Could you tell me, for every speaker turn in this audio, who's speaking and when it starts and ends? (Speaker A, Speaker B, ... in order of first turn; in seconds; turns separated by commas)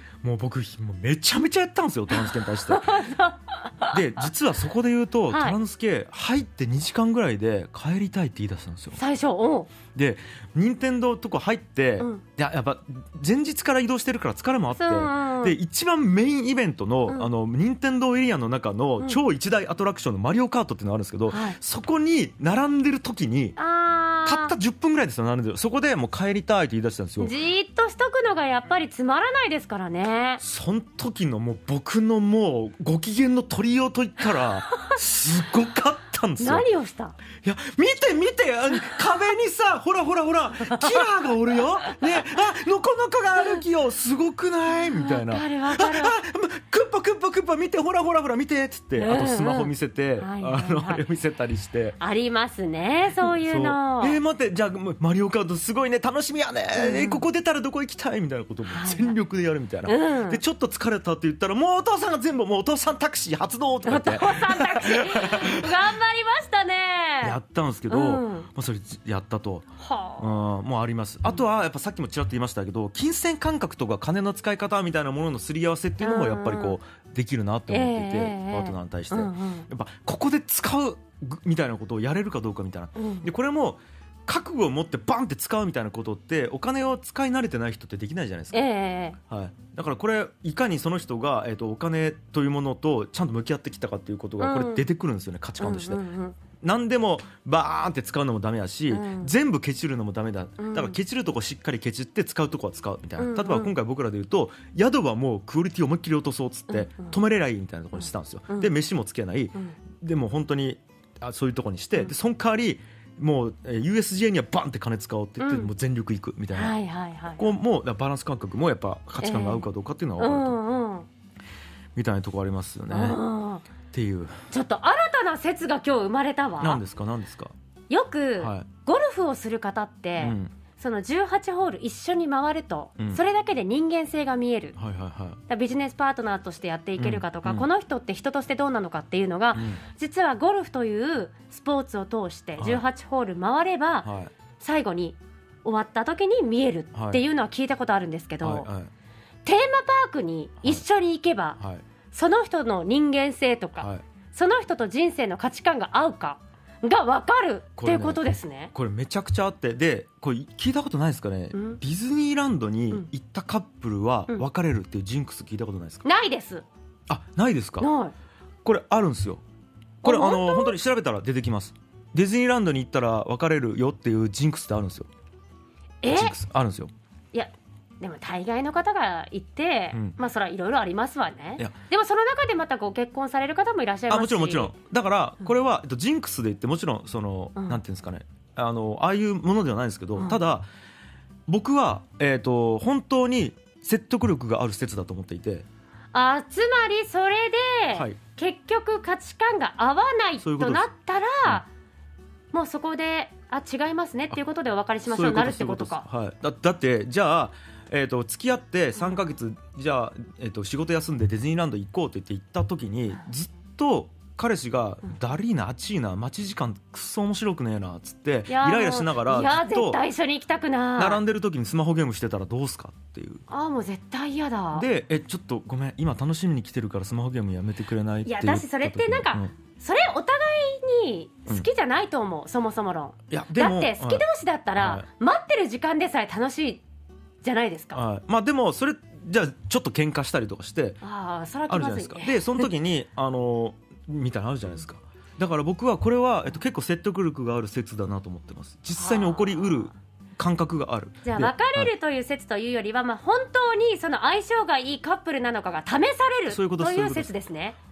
Speaker A: 0.2-3.0, Speaker B: 2.1-4.2, Speaker A: 3.9-9.0, Speaker B: 5.3-5.6, Speaker B: 8.9-9.7, Speaker A: 9.9-23.6, Speaker B: 14.7-15.6, Speaker B: 21.3-21.6, Speaker B: 23.6-24.5, Speaker A: 24.2-27.3, Speaker B: 27.2-30.4, Speaker A: 30.4-36.6, Speaker B: 36.4-37.1, Speaker A: 37.4-52.0, Speaker B: 40.7-41.0, Speaker B: 44.9-46.2, Speaker B: 49.0-51.0, Speaker B: 52.0-54.2, Speaker A: 53.2-65.8, Speaker B: 56.8-57.2, Speaker B: 58.7-59.1, Speaker B: 59.9-60.4, Speaker B: 63.9-67.4, Speaker A: 67.2-88.6, Speaker B: 67.9-68.5, Speaker B: 69.8-70.4, Speaker B: 76.0-76.8, Speaker B: 77.7-79.7, Speaker B: 83.0-83.3, Speaker B: 88.5-89.2, Speaker A: 89.3-96.0, Speaker B: 94.4-94.8, Speaker B: 95.6-96.4, Speaker A: 96.6-116.7, Speaker B: 98.9-99.3, Speaker B: 100.6-101.0, Speaker B: 103.2-103.7, Speaker B: 106.7-107.2, Speaker B: 108.0-108.7, Speaker B: 115.4-115.7, Speaker B: 116.5-117.5, Speaker A: 117.4-120.6, Speaker B: 119.2-119.7, Speaker B: 120.2-121.1, Speaker A: 122.0-123.2, Speaker B: 122.9-123.6, Speaker A: 123.9-124.4, Speaker B: 124.5-126.8, Speaker A: 126.6-127.5, Speaker B: 127.9-134.8, Speaker A: 128.4-128.7, Speaker A: 130.2-130.5, Speaker A: 134.8-135.4, Speaker B: 135.5-144.1, Speaker A: 137.0-137.7, Speaker A: 139.5-139.8, Speaker A: 142.6-142.8, Speaker A: 144.0-144.3, Speaker B: 144.6-148.7, Speaker A: 146.9-147.2, Speaker A: 148.4-148.9, Speaker B: 149.4-151.6, Speaker B: 152.1-158.7, Speaker A: 157.8-166.0, Speaker B: 161.5-161.8, Speaker B: 166.0-166.6, Speaker A: 167.1-167.9, Speaker B: 167.8-168.1, Speaker A: 168.6-169.4, Speaker A: 170.0-175.1, Speaker B: 170.0-170.8, Speaker B: 176.0-176.3, Speaker A: 176.1-176.9, Speaker B: 177.3-184.7, Speaker A: 184.1-190.7, Speaker A: 191.5-195.7, Speaker B: 196.1-201.7, Speaker A: 197.9-198.2, Speaker A: 200.4-200.8, Speaker B: 202.5-206.0, Speaker A: 205.1-220.0, Speaker B: 218.5-221.2, Speaker A: 221.0-223.4, Speaker B: 223.5-224.8, Speaker A: 224.7-229.5, Speaker B: 228.2-236.8, Speaker A: 233.3-234.2, Speaker A: 234.8-235.1, Speaker B: 237.4-238.0, Speaker A: 237.9-241.0, Speaker B: 241.0-242.7, Speaker A: 241.7-251.9, Speaker B: 249.0-249.9, Speaker B: 251.2-257.8, Speaker A: 256.5-257.3